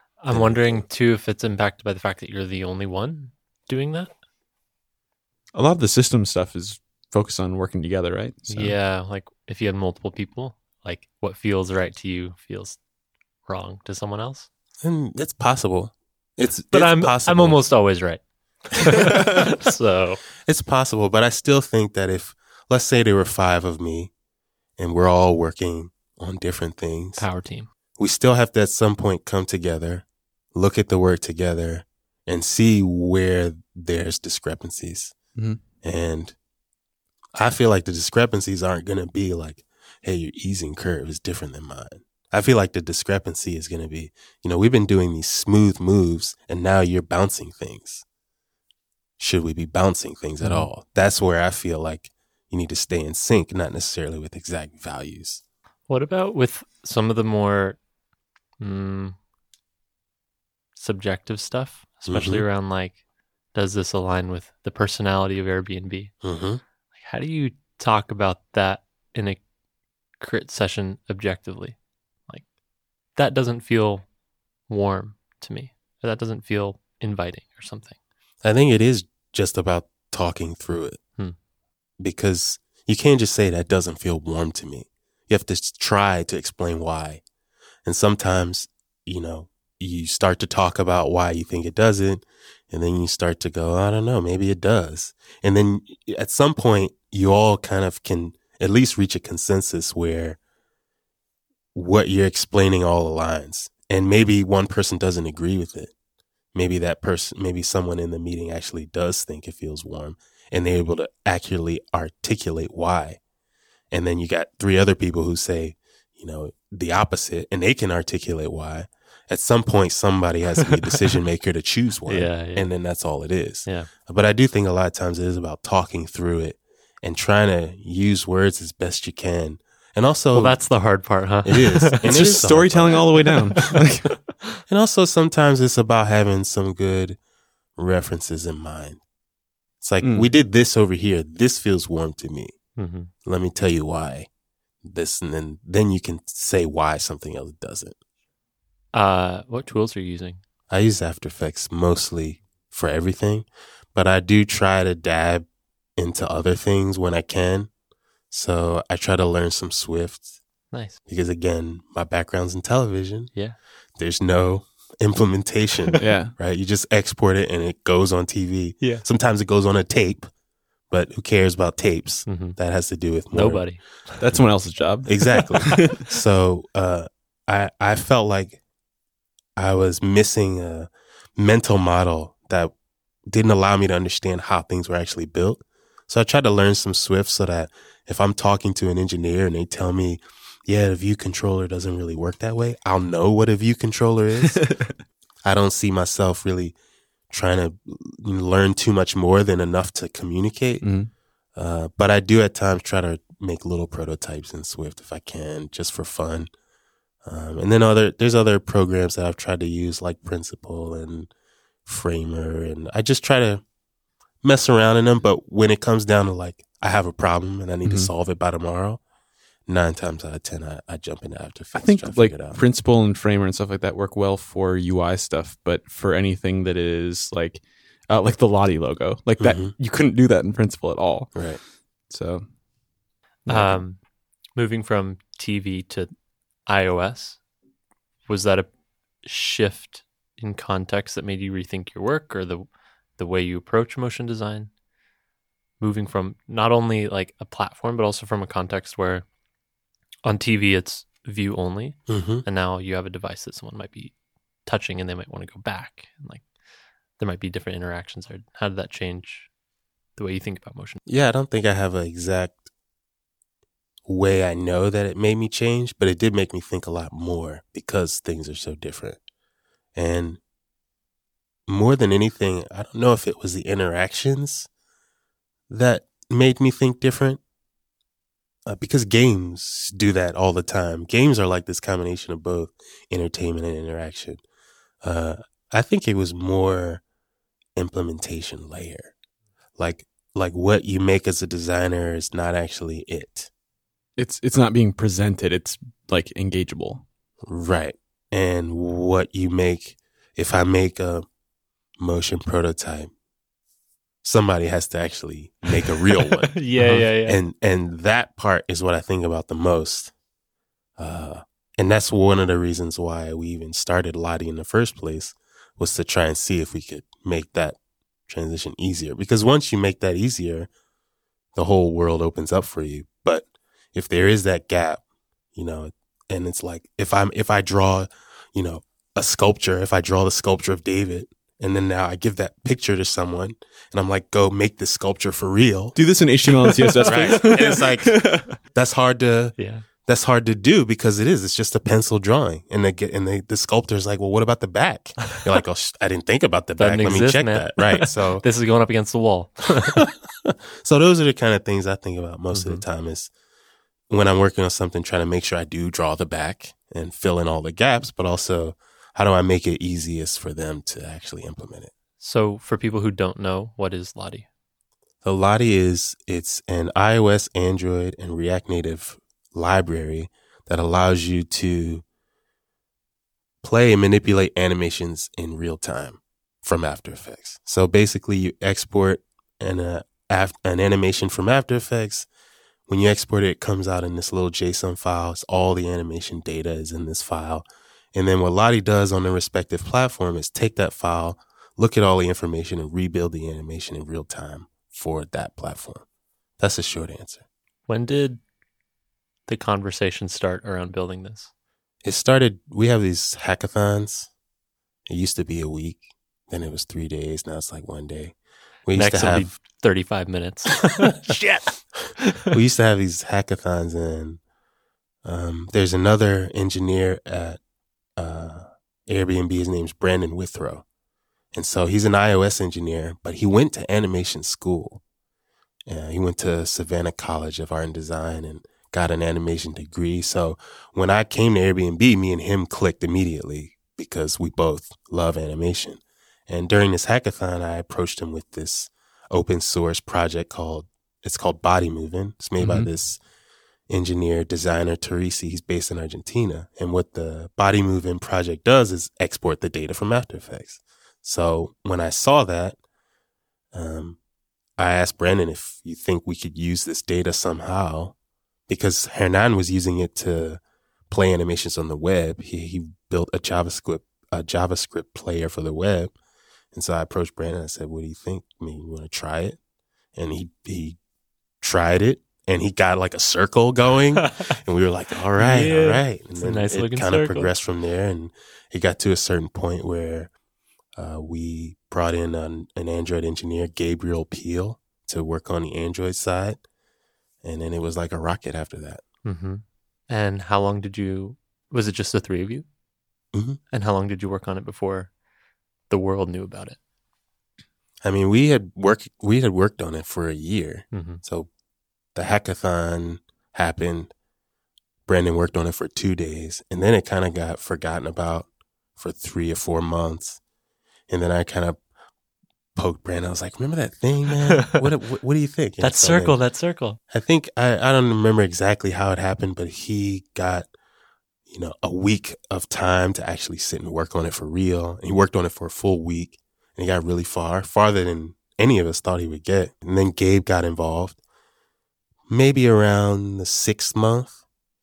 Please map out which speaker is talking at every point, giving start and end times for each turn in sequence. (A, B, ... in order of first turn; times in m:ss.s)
0:00.2-0:04.1 A
0:00.3-0:00.8 B
0:05.5-0:08.8 C
0:08.5-0:12.8 A
0:13.4-0:14.5 A
0:14.8-0:17.6 B
0:16.7-0:20.2 A
0:20.4-0:24.1 B
0:24.8-0:27.2 B
0:27.2-0:27.7 A
0:28.0-0:35.2 B
0:35.8-0:36.3 B
0:37.3-0:48.0 B
0:49.2-0:55.4 B
0:50.4-0:50.7 C
0:55.9-0:57.8 A
0:58.6-0:59.2 A
1:00.8-1:03.0 A
1:02.1-1:02.4 B
1:03.5-1:06.1 A
1:06.2-1:06.6 B
1:06.9-1:09.4 A
1:10.2-1:12.5 A
1:13.1-1:14.1 A
1:14.7-1:18.0 A
1:18.4-1:21.0 B
1:22.0-1:27.2 B
1:27.8-1:40.4 B
1:41.7-1:45.9 B
1:46.5-1:53.2 B
1:53.9-2:10.7 B
2:02.1-2:02.7 A
2:10.3-2:12.0 A
2:11.4-2:13.1 B
2:12.0-2:14.1 C
2:14.7-2:17.2 B
2:17.8-2:19.0 B
2:19.8-2:22.6 B
2:20.0-2:20.3 C
2:22.8-2:23.1 A
2:23.2-2:24.3 B
2:24.8-2:28.0 B
2:28.9-2:30.4 A
2:30.7-2:35.4 B
2:36.0-2:37.7 B
2:38.3-2:40.3 B
2:40.7-2:41.0 A
2:41.0-2:43.3 B
2:44.0-2:50.3 B
2:46.0-2:46.3 C
2:50.9-2:53.6 B
2:52.2-2:52.6 A
2:53.3-2:53.8 A
2:54.2-2:56.0 C
2:55.0-2:58.6 B
2:59.6-3:02.7 B
3:03.3-3:14.7 B
3:14.5-3:14.9 C
3:15.4-3:16.7 B
3:17.3-3:20.9 B
3:20.8-3:21.1 C
3:21.6-3:26.5 B
3:27.2-3:31.3 B
3:31.8-3:33.6 B
3:34.4-3:39.0 B
3:39.7-3:42.6 B
3:41.8-3:52.5 C
3:49.4-3:49.7 B
3:51.3-3:51.6 B
3:53.4-3:56.1 A
3:53.5-3:53.8 C
3:56.6-3:57.4 A
3:58.2-3:58.7 A
3:59.2-4:04.7 A
4:05.8-4:09.2 A
4:10.2-4:16.5 A
4:12.1-4:12.4 B
4:17.2-4:19.5 A
4:20.2-4:21.0 A
4:21.0-4:22.7 B
4:24.0-4:29.2 B
4:30.0-4:30.4 B
4:31.7-4:34.7 B
4:35.7-4:37.4 B
4:38.7-4:44.4 B
4:45.0-4:47.0 B
4:47.8-4:49.1 B
4:49.8-4:53.5 B
4:54.2-4:57.0 C
4:57.4-5:01.2 B
5:02.0-5:03.1 B
5:04.2-5:06.6 B
5:06.3-5:07.4 A
5:06.8-5:07.1 C
5:07.2-5:10.1 B
5:11.0-5:20.7 B
5:21.5-5:25.0 B
5:25.5-5:36.0 B
5:36.0-5:38.5 C
5:37.0-5:48.4 B
5:37.1-5:37.4 A
5:39.6-5:39.8 A
5:46.8-5:50.0 A
5:49.9-5:53.3 B
5:52.5-5:52.8 A
5:54.1-6:01.9 B
6:02.2-6:04.5 A
6:05.2-6:12.0 B
6:13.6-6:22.3 B
6:22.9-6:36.0 B
6:36.6-6:37.4 B
6:37.9-6:38.4 A
6:39.5-6:41.5 A
6:42.0-6:44.3 B
6:45.1-6:49.5 B
6:48.9-6:51.7 A
6:52.5-6:54.4 B
6:55.2-6:57.6 B
6:58.2-7:00.8 B
7:01.5-7:05.0 B
7:05.9-7:23.2 B
7:22.6-7:22.9 C
7:23.9-7:32.8 B
7:33.7-7:34.2 B
7:34.8-7:38.1 B
7:38.7-7:46.1 B
7:46.7-7:49.6 B
7:50.1-7:51.0 B
7:51.6-8:00.3 B
7:54.2-7:54.5 A
7:55.4-7:57.5 A
8:01.0-8:06.6 B
8:07.4-8:09.0 B
8:09.2-8:12.6 A
8:13.3-8:13.6 B
8:13.7-8:15.1 A
8:15.9-8:16.8 A
8:18.0-8:21.5 B
8:20.9-8:21.2 A
8:22.1-8:24.1 B
8:25.1-8:30.4 B
8:31.1-8:31.8 B
8:32.7-8:36.4 B
8:35.8-8:37.0 A
8:37.1-8:40.7 B
8:41.5-8:51.2 B
8:52.3-8:54.4 B